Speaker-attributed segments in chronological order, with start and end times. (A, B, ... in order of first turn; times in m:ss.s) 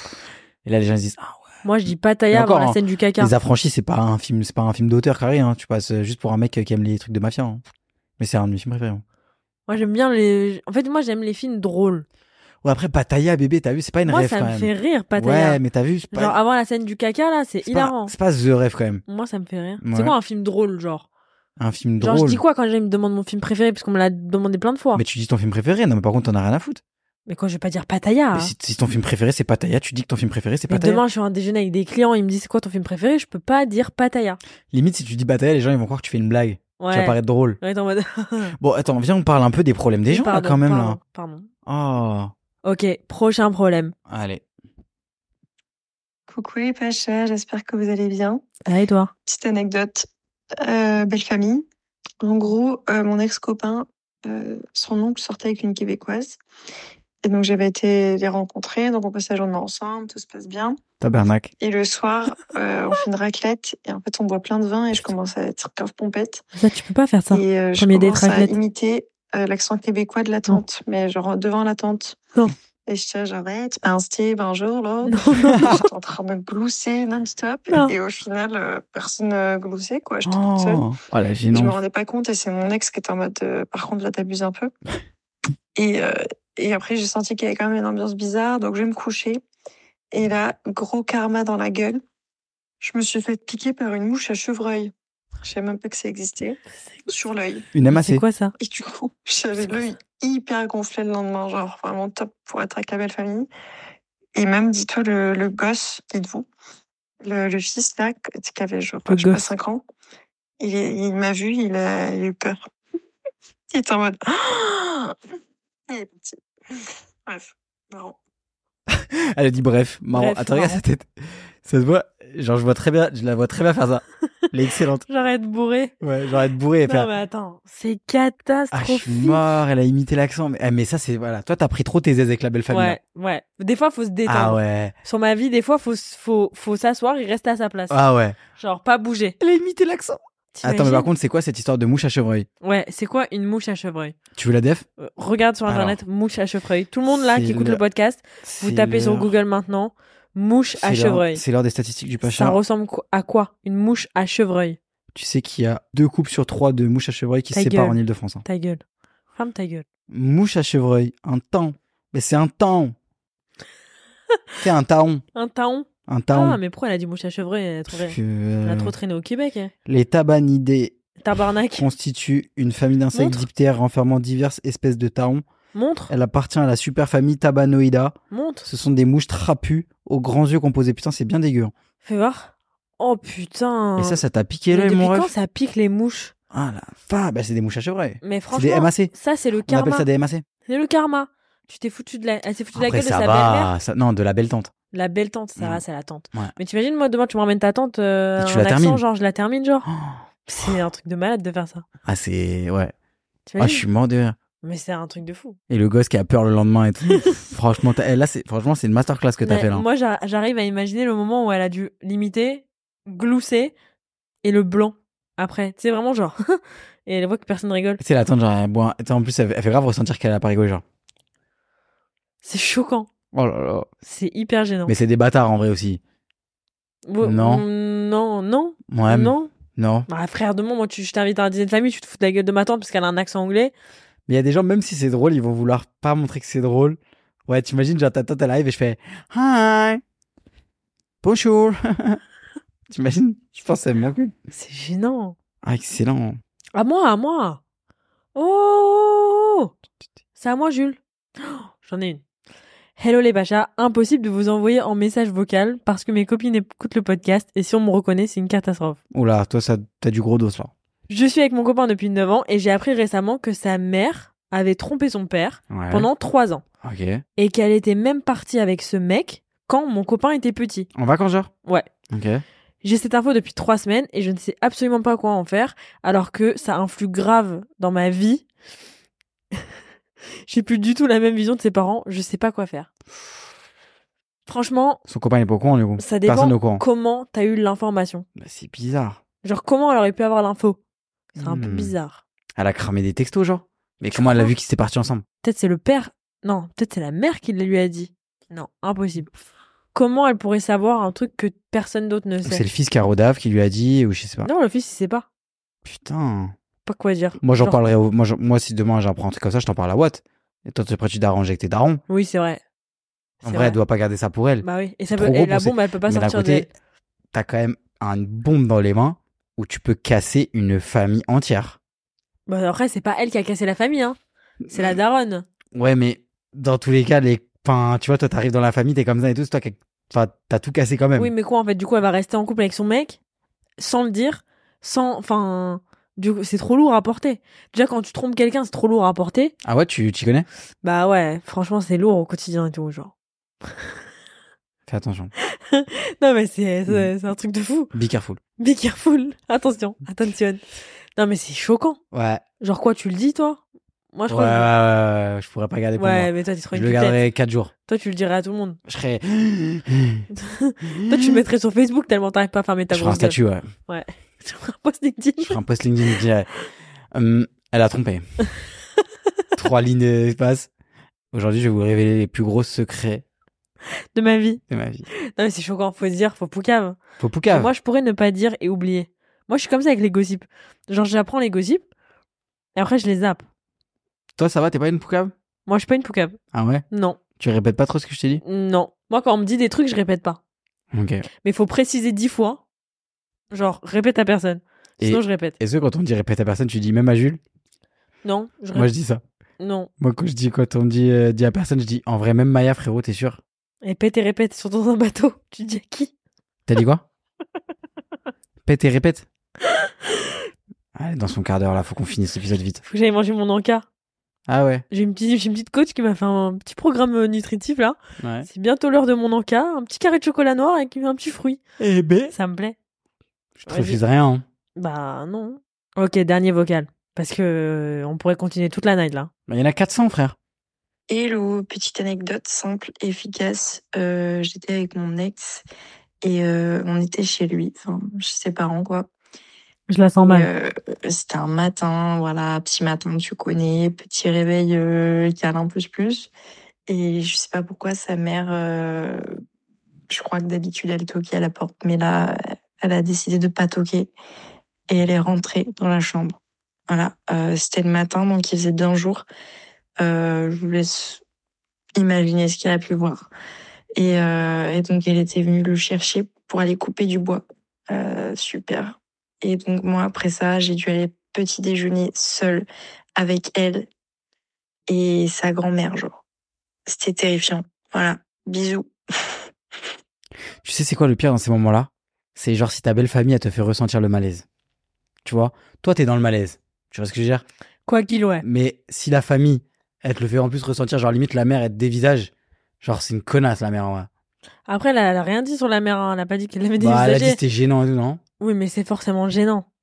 0:00.6-0:01.4 A
0:01.6-0:03.3 B
0:02.3-0:07.6 A
0:08.2-0:09.0 A
0:09.7-0:12.1 B
0:12.6-0:16.4 A
0:14.0-0:15.6 B
0:16.1-0:18.1 B
0:17.6-0:19.0 A
0:19.1-0:21.1 B
0:19.8-0:20.2 A
0:21.6-0:22.4 A
0:22.0-0:25.0 B
0:25.0-0:26.8 A
0:27.3-0:28.5 B
0:28.3-0:31.0 A
0:30.7-0:34.4 B
0:34.7-0:37.6 A
0:36.8-0:38.5 B
0:38.6-0:41.0 A
0:40.1-0:41.5 B
0:41.7-0:42.3 A
0:42.6-0:43.9 B
0:44.1-0:44.4 A
0:46.3-0:48.4 C
0:48.7-0:49.1 B
0:49.3-0:50.1 C
0:50.6-0:51.6 C
0:52.2-0:56.4 C
0:57.2-1:00.8 C
1:01.0-1:01.5 A
1:01.6-1:06.4 C
1:06.6-1:08.6 B
1:07.3-1:12.2 C
1:12.9-1:20.8 C
1:15.1-1:15.8 B
1:20.2-1:21.8 A
1:21.5-1:24.7 C
1:25.8-1:29.4 C
1:30.1-1:32.0 C
1:32.8-1:37.7 C
1:37.7-1:38.2 A
1:37.9-1:38.5 B
1:38.6-1:43.5 C
1:44.4-1:46.5 C
1:47.2-1:49.8 C
1:49.1-1:49.4 B
1:50.6-1:52.6 C
1:53.7-1:55.2 C
1:55.9-1:58.2 C
1:58.9-2:01.1 A
2:00.1-2:00.8 B
2:01.6-2:05.0 A
2:05.1-2:05.9 B
2:06.0-2:07.1 A
2:06.9-2:09.4 B
2:08.7-2:13.0 A
2:12.7-2:18.0 B
2:14.3-2:15.0 A
2:17.9-2:18.4 A
2:18.6-2:19.4 B
2:19.4-2:22.5 A
2:20.5-2:21.1 B
2:22.6-2:24.2 B
2:24.4-2:24.9 A
2:25.0-2:31.4 B
2:25.7-2:26.0 A
2:27.1-2:27.8 A
2:28.4-2:29.3 A
2:30.8-2:32.6 A
2:32.2-2:34.8 B
2:35.1-2:38.4 A
2:37.5-2:38.8 B
2:39.4-2:39.8 B
2:40.1-2:43.0 A
2:44.6-2:45.2 A
2:45.4-2:49.7 B
2:46.1-2:46.6 A
2:47.9-2:48.9 A
2:49.9-2:51.0 A
2:51.2-2:51.9 B
2:51.8-2:55.4 A
2:53.1-2:53.5 B
2:55.7-2:56.1 B
2:56.1-3:01.7 A
2:58.3-2:58.7 B
3:02.0-3:06.3 B
3:04.0-3:05.3 A
3:06.5-3:09.1 A
3:08.2-3:10.1 B
3:09.7-3:10.4 A
3:10.7-3:13.7 B
3:12.7-3:14.7 A
3:14.9-3:19.9 B
3:18.4-3:19.0 A
3:19.9-3:20.8 A
3:20.5-3:21.8 B
3:22.0-3:22.9 A
3:23.5-3:23.8 B
3:23.6-3:24.4 A
3:24.6-3:25.6 B
3:25.7-3:29.8 A
3:29.4-3:33.7 B
3:34.4-3:38.0 B
3:38.0-3:40.8 A
3:42.4-3:43.1 B
3:43.3-3:43.9 A
3:44.0-3:44.9 B
3:44.9-3:46.0 A
3:47.1-3:49.5 B
3:47.2-3:47.6 A
3:48.9-3:50.1 A
3:50.1-3:53.7 B
3:54.3-4:00.0 A
4:01.2-4:02.2 A
4:02.9-4:04.3 A
4:04.5-4:05.4 B
4:05.6-4:06.4 A
4:06.8-4:07.6 B
4:08.4-4:09.7 B
4:10.4-4:12.2 B
4:13.0-4:19.0 B
4:19.1-4:20.7 A
4:21.1-4:26.6 B
4:25.7-4:26.1 A
4:26.8-4:27.2 A
4:27.4-4:30.9 B
4:31.0-4:31.5 A
4:32.1-4:32.4 A
4:32.8-4:38.4 B
4:40.5-4:42.9 B
4:44.5-4:45.0 B
4:45.1-4:46.8 A
4:46.0-4:48.3 B
4:48.4-4:49.2 A
4:49.4-4:50.8 B
4:51.4-4:51.9 A
4:51.4-4:52.2 B
4:52.6-4:55.2 A
4:54.1-4:54.5 B
4:55.4-4:59.3 B
4:59.9-5:02.6 B
5:02.4-5:04.5 A
5:04.4-5:05.3 B
5:05.8-5:06.5 A
5:06.9-5:07.8 B
5:07.4-5:12.0 A
5:12.1-5:12.6 B
5:13.4-5:16.7 A
5:13.4-5:13.8 B
5:14.6-5:16.7 B
5:17.3-5:21.8 A
5:22.5-5:24.2 B
5:24.7-5:25.5 B
5:25.7-5:31.3 A
5:31.2-5:33.2 B
5:33.8-5:39.5 B
5:39.6-5:40.5 A
5:40.8-5:43.1 B
5:44.9-5:45.3 A
5:45.5-5:47.9 B
5:47.9-5:48.4 A
5:48.6-5:50.6 B
5:51.2-5:52.0 B
5:52.1-5:52.4 A
5:52.6-5:53.6 B
5:54.1-5:54.7 B
5:54.3-5:57.7 A
5:56.0-5:57.2 B
5:57.9-5:58.8 B
5:58.9-6:00.3 A
6:00.3-6:03.4 B
6:00.9-6:01.4 A
6:02.9-6:03.7 A
6:03.9-6:05.6 B
6:05.4-6:06.5 A
6:07.1-6:08.3 A
6:09.6-6:10.7 A
6:11.3-6:13.2 A
6:14.2-6:14.6 B
6:14.7-6:15.1 A
6:15.3-6:21.8 B
6:17.2-6:17.7 A
6:22.8-6:23.4 B
6:24.4-6:25.3 A
6:25.7-6:26.4 B
6:26.5-6:26.8 A
6:26.9-6:27.2 B
6:27.4-6:28.4 A
6:28.4-6:30.4 B
6:30.9-6:31.3 A
6:31.4-6:32.6 B
6:33.5-6:35.6 B
6:35.0-6:37.4 A
6:38.2-6:38.9 B
6:38.7-6:39.2 A
6:39.6-6:39.9 B
6:40.0-6:43.4 A
6:43.8-6:46.1 B
6:46.7-6:47.0 A
6:48.6-6:49.3 A
6:51.0-6:52.8 A
6:52.8-6:53.8 B
6:54.5-6:54.8 A
6:54.9-7:01.6 B
6:58.2-6:58.5 A
7:01.8-7:02.3 A
7:02.3-7:02.8 B
7:03.6-7:04.4 A
7:03.7-7:04.0 B
7:04.8-7:09.3 B
7:09.5-7:10.4 A
7:11.1-7:15.6 C
7:16.2-7:19.1 C
7:19.9-7:20.5 B
7:20.2-7:26.3 C
7:26.9-7:29.3 C
7:30.1-7:34.1 C
7:34.9-7:39.3 C
7:40.0-7:41.2 C
7:42.0-7:43.3 C
7:44.0-7:53.9 C
7:54.9-7:56.2 C
7:56.9-7:59.4 C
8:00.6-8:04.4 A
8:05.2-8:07.4 A
8:07.9-8:08.4 B
8:08.4-8:14.1 A
8:14.7-8:17.4 B
8:16.8-8:18.2 A
8:18.4-8:19.7 B